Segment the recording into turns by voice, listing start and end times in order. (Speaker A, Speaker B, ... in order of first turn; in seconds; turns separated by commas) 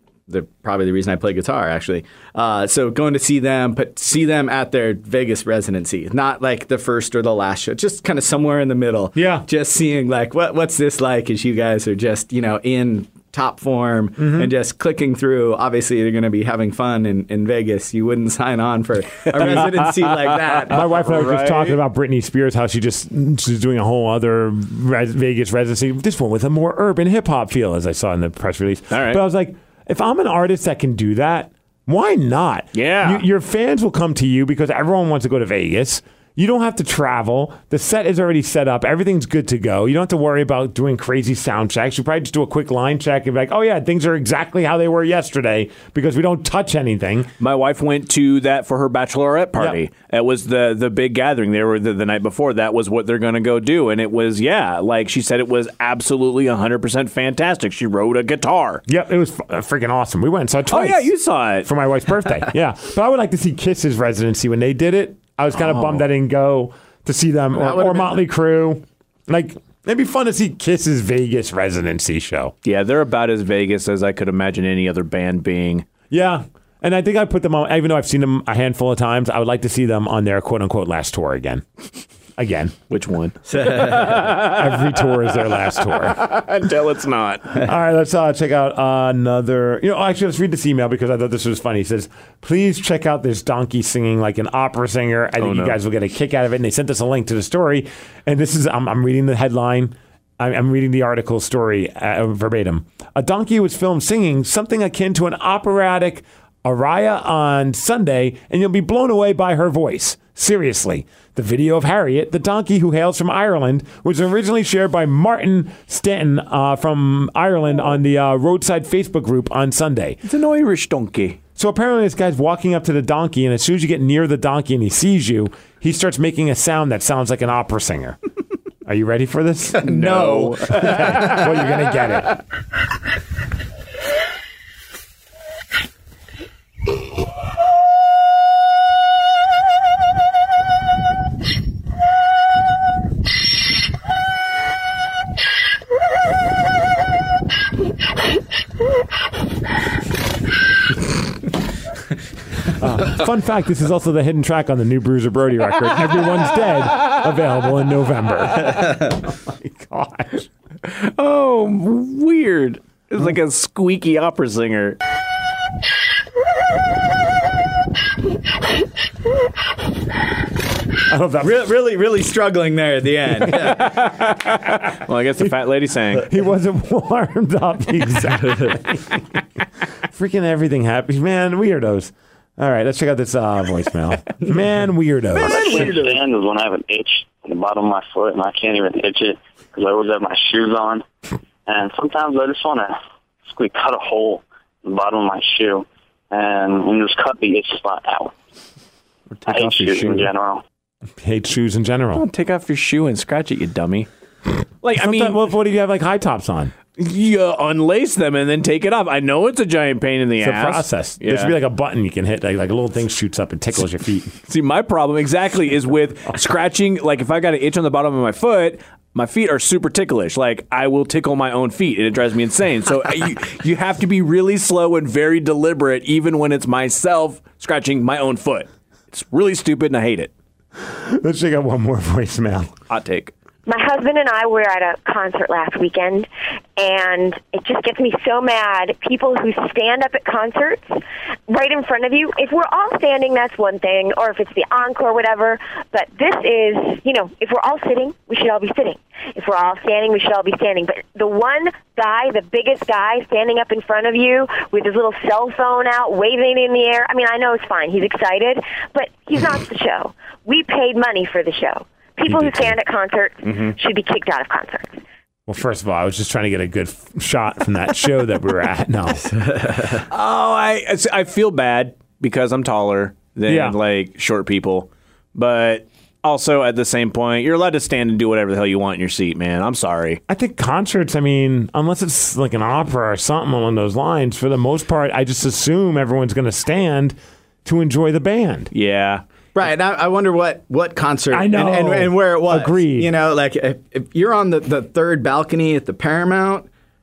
Speaker A: 0.3-20.8, Speaker B: 9.1-9.4, Speaker B: 14.2-14.5, Speaker C: 19.2-21.8, Speaker B: 20.7-47.3, Speaker C: 28.9-29.2, Speaker C: 32.7-33.2, Speaker C: 47.4-58.8, Speaker B: 58.9-61.1, Speaker C: 60.7-61.7, Speaker B: 61.6-72.5, Speaker C: 65.6-66.0, Speaker A: 67.6-68.2, Speaker C: 72.6-75.8, Speaker B: 76.1-81.7, Speaker B: 82.4-82.7, Speaker C: 82.9-87.6, Speaker A: 83.5-84.3, Speaker B: 84.3-86.2, Speaker B: 87.6-120.2, Speaker C: 95.4-95.8, Speaker C: 120.2-121.4, Speaker B: 121.5-128.2, Speaker B: 128.8-129.9, Speaker A: 129.8-131.4, Speaker C: 129.8-131.4, Speaker B: 130.7-132.4, Speaker B: 152.7-160.5, Speaker C: 160.8-165.0, Speaker B: 171.1-171.6, Speaker A: 171.4-173.9, Speaker C: 173.5-176.3, Speaker B: 176.2-179.3, Speaker B: 180.1-185.9, Speaker D: 185.4-191.0, Speaker A: 185.5-186.1, Speaker C: 185.7-186.0, Speaker D: 191.7-192.9, Speaker D: 193.5-198.3, Speaker C: 199.3-200.3, Speaker D: 199.5-200.6, Speaker B: 201.2-202.2, Speaker C: 202.1-204.1, Speaker C: 204.8-205.4, Speaker B: 204.9-206.7, Speaker C: 207.0-211.5, Speaker B: 210.4-214.3, Speaker C: 214.5-230.3, Speaker B: 230.8-232.7, Speaker C: 232.9-233.3, Speaker E: 233.7-265.0, Speaker B: 262.2-262.7, Speaker C: 263.5-263.7, Speaker B: 265.5-269.2, Speaker A: 269.2-270.0, Speaker C: 270.1-280.2, Speaker B: 273.5-273.8, Speaker B: 280.3-288.7, Speaker C: 288.7-289.2, Speaker A: 289.5-296.7, Speaker B: 291.3-293.1